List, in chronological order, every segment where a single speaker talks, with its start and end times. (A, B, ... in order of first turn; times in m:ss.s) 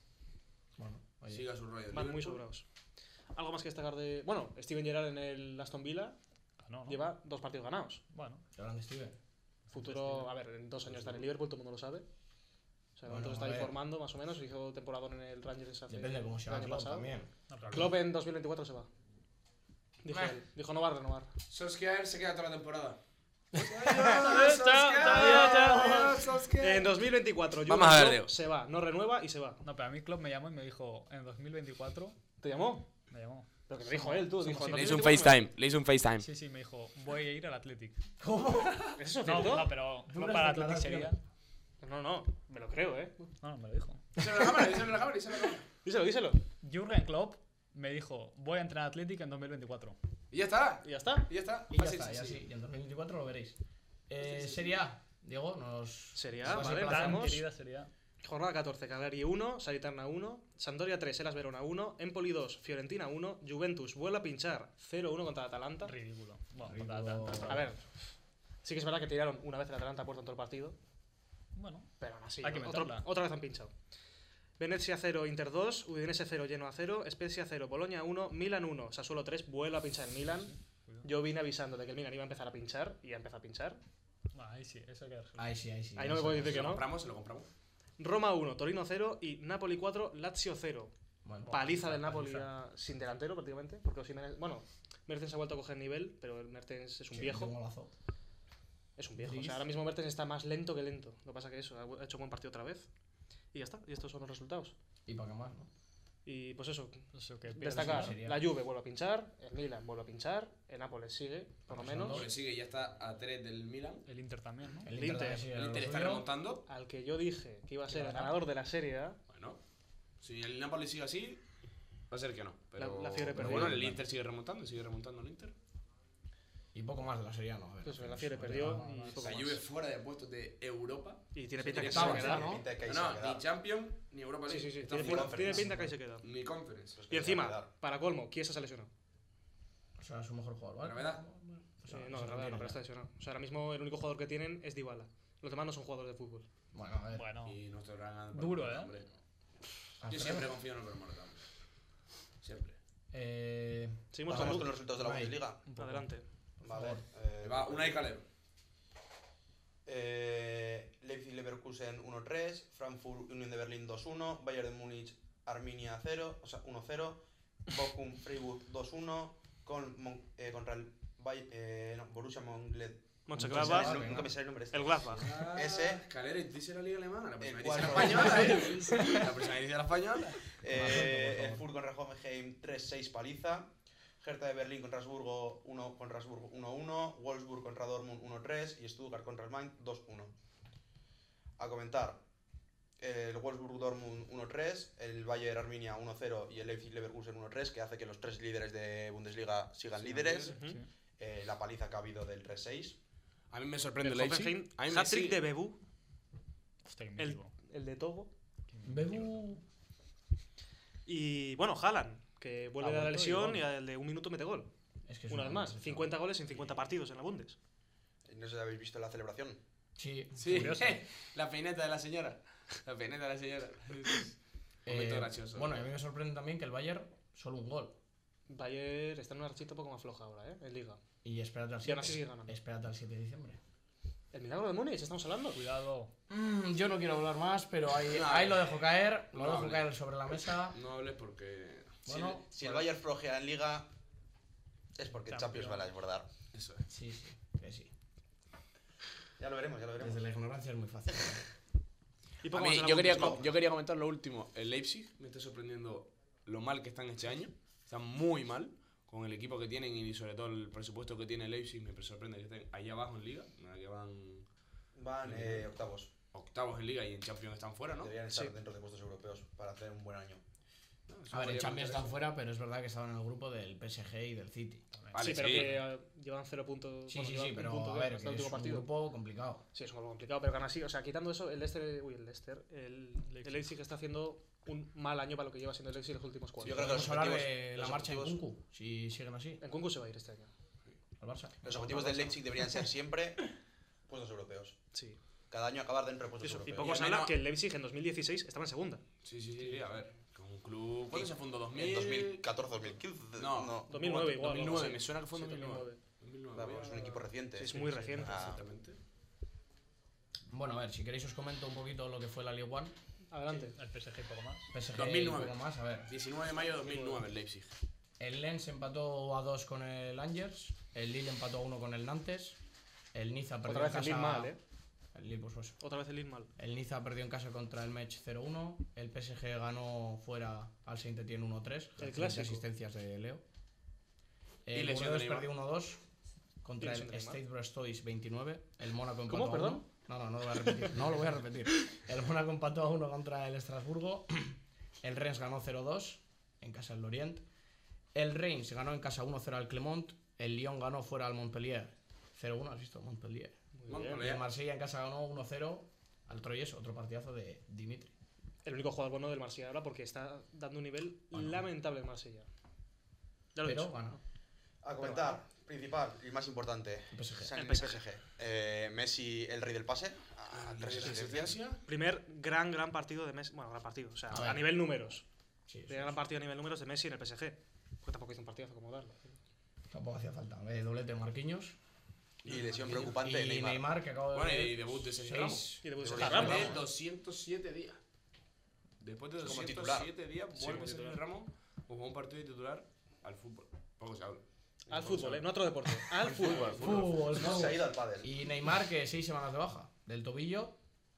0:00.8-0:01.4 A
0:01.3-0:02.4 B
0:01.9-0:02.6 C
0:03.3-0:06.2 C
0:06.6-0:07.0 D
0:06.8-0:08.0 C
0:08.1-0:08.4 D
0:08.5-0:09.2 A
0:09.7-0:10.3 D
0:09.7-0:12.0 C
0:13.0-0:17.1 C
0:13.0-0:13.8 A
0:15.9-0:17.3 A
0:17.5-0:17.9 D
0:17.7-0:18.9 C
0:20.0-0:21.3 C
0:20.1-0:20.3 A
0:21.5-0:23.0 B
0:23.5-0:24.2 A
0:23.5-0:27.0 B
0:24.0-0:29.6 C
0:27.6-0:28.3 B
0:29.6-0:32.2 D
0:32.4-0:32.9 C
0:33.1-0:34.4 D
0:33.7-0:35.4 C
0:34.4-0:35.0 A
0:34.7-0:36.3 B
0:36.2-0:38.0 D
0:38.2-0:39.0 A
0:39.0-0:39.7 C
0:39.2-0:41.2 D
0:40.0-0:41.1 A
0:41.8-0:43.3 C
0:43.4-0:44.1 D
0:44.2-0:45.6 B
0:45.8-0:46.4 C
0:46.6-0:50.0 D
0:50.3-0:52.4 B
0:50.8-0:51.3 C
0:51.7-0:57.4 A
0:56.1-0:57.4 C
0:56.5-0:57.9 D
0:58.2-1:05.9 C
1:05.8-1:07.7 D
1:06.6-1:07.7 A
1:07.4-1:07.8 C
1:08.6-1:10.8 C
1:11.5-1:13.1 D
1:12.0-1:13.7 C
1:14.6-1:23.8 C
1:20.4-1:21.1 D
1:24.3-1:25.5 D
1:25.4-1:26.8 A
1:26.0-1:26.9 C
1:26.2-1:27.5 B
1:28.0-1:30.9 C
1:31.2-1:32.4 A
1:31.5-1:37.6 C
1:31.5-1:32.4 D
1:37.1-1:37.9 A
1:39.0-1:42.9 C
1:39.2-1:39.7 A
1:43.5-1:44.7 C
1:45.0-1:45.7 A
1:46.2-1:52.2 C
1:47.1-1:48.2 D
1:47.6-1:48.5 A
1:51.7-1:52.3 A
1:51.9-1:54.1 B
1:54.0-1:54.9 D
1:54.8-1:56.3 A
1:54.9-1:55.5 C
1:55.5-1:56.6 B
1:56.7-1:59.2 C
1:57.9-1:58.4 A
1:59.3-1:59.6 B
2:00.2-2:01.4 B
2:02.1-2:05.5 B
2:02.8-2:03.8 C
2:03.3-2:04.0 A
2:06.7-2:09.2 A
2:07.8-2:09.6 C
2:08.5-2:09.3 D
2:09.2-2:15.7 B
2:11.3-2:12.5 C
2:11.7-2:13.4 E
2:11.7-2:12.7 A
2:14.5-2:16.3 C
2:14.9-2:15.7 E
2:16.2-2:17.0 B
2:16.9-2:17.7 E
2:17.1-2:18.9 C
2:20.0-2:22.8 A
2:20.8-2:21.2 B
2:21.9-2:26.5 C
2:26.7-2:27.3 A
2:27.1-2:27.6 D
2:27.4-2:29.1 B
2:28.3-2:28.9 D
2:30.0-2:30.5 A
2:30.0-2:31.4 B
2:32.4-2:32.8 B
2:33.1-2:35.4 A
2:34.1-2:34.7 C
2:34.3-2:35.7 E
2:35.7-2:36.2 C
2:36.6-2:37.0 A
2:36.6-2:38.0 E
2:37.4-2:38.2 B
2:39.8-2:56.0 E
2:53.3-2:54.1 C
2:53.3-2:54.3 A
2:54.7-2:55.3 C
2:55.1-3:00.5 B
2:57.4-2:58.7 E
2:58.5-2:59.2 C
3:00.6-3:10.3 E
3:00.6-3:01.6 A
3:11.6-3:12.2 E
3:13.0-3:20.6 E
3:20.0-3:20.5 B
3:20.4-3:20.8 C
3:20.5-3:20.8 D
3:21.2-3:23.0 E
3:23.5-3:25.4 B
3:24.0-3:25.8 C
3:26.8-3:27.5 D
3:27.2-3:28.3 C
3:28.7-3:29.6 D
3:28.8-3:29.6 A
3:31.0-3:34.7 C
3:32.8-3:33.5 D
3:35.1-3:36.1 A
3:35.3-3:37.6 C
3:38.2-3:39.6 E
3:40.0-3:40.8 A
3:40.4-3:45.9 B
3:40.5-3:41.0 D
3:44.8-3:48.0 A
3:48.5-3:51.0 C
3:51.2-3:53.6 A
3:51.8-3:52.6 C
3:54.3-3:55.6 C
3:55.5-3:56.1 D
3:56.3-4:00.8 A
3:58.0-3:59.9 B
4:00.7-4:02.8 B
4:02.0-4:02.8 A
4:02.4-4:03.9 E
4:05.0-4:06.3 E
4:05.3-4:05.9 D
4:06.5-4:06.8 B
4:06.9-4:07.9 A
4:09.4-4:10.2 E
4:10.0-4:11.4 A
4:12.4-4:13.4 C
4:12.5-4:24.4 B
4:25.0-4:26.1 E
4:25.2-4:25.7 B
4:26.3-4:28.1 B
4:28.0-4:30.4 E
4:31.1-4:32.2 B
4:31.3-4:34.8 A
4:35.0-4:35.8 D
4:35.1-4:35.7 B
4:35.2-4:38.9 C
4:37.1-4:39.6 A
4:39.7-4:47.0 C
4:43.3-4:43.7 D
4:46.6-4:48.4 E
4:46.6-4:49.6 A
4:49.6-4:50.5 C
4:51.2-4:52.0 A
4:51.6-4:53.5 E
4:51.7-4:52.4 C
4:54.1-4:54.8 E
4:54.9-4:55.2 C
4:55.5-4:56.9 E
4:56.4-4:59.0 C
4:56.8-4:57.4 B
4:59.2-5:02.5 B
5:01.1-5:04.4 E
5:03.4-5:09.0 B
5:03.9-5:06.0 C
5:06.5-5:08.6 E
5:07.6-5:08.6 C
5:10.5-5:13.0 A
5:13.3-5:13.8 C
5:13.5-5:14.7 D
5:14.7-5:16.1 A
5:14.9-5:17.8 B
5:16.8-5:17.2 C
5:18.2-5:22.6 A
5:23.1-5:24.5 A
5:23.6-5:24.6 C
5:25.1-5:25.8 A
5:25.8-5:26.5 C
5:26.6-5:33.4 A
5:32.0-5:32.6 C
5:34.6-5:36.0 A
5:34.7-5:35.5 B
5:36.6-5:47.4 A
5:36.8-5:37.4 C
5:39.3-5:39.8 C
5:48.1-5:53.5 A
5:53.7-5:54.3 C
5:53.9-5:54.5 B
5:54.1-5:58.1 A
5:58.6-6:02.5 C
6:01.3-6:01.6 A
6:03.5-6:04.2 C
6:03.6-6:04.2 A
6:04.8-6:11.6 E
6:05.0-6:05.4 C
6:07.1-6:07.5 A
6:07.5-6:08.0 C
6:10.5-6:11.8 B
6:11.0-6:11.2 C
6:11.8-6:15.2 C
6:14.3-6:14.7 A
6:15.7-6:16.2 A
6:15.9-6:19.4 C
6:19.9-6:21.8 A
6:22.4-6:23.1 B
6:22.4-6:23.8 E
6:22.8-6:26.6 A
6:24.3-6:28.0 B
6:25.8-6:26.8 C
6:26.0-6:26.8 E
6:29.0-6:35.5 B
6:29.4-6:30.1 E
6:30.6-6:31.2 C
6:34.9-6:37.0 C
6:36.0-6:37.7 B
6:36.5-6:40.8 A
6:37.3-6:38.3 E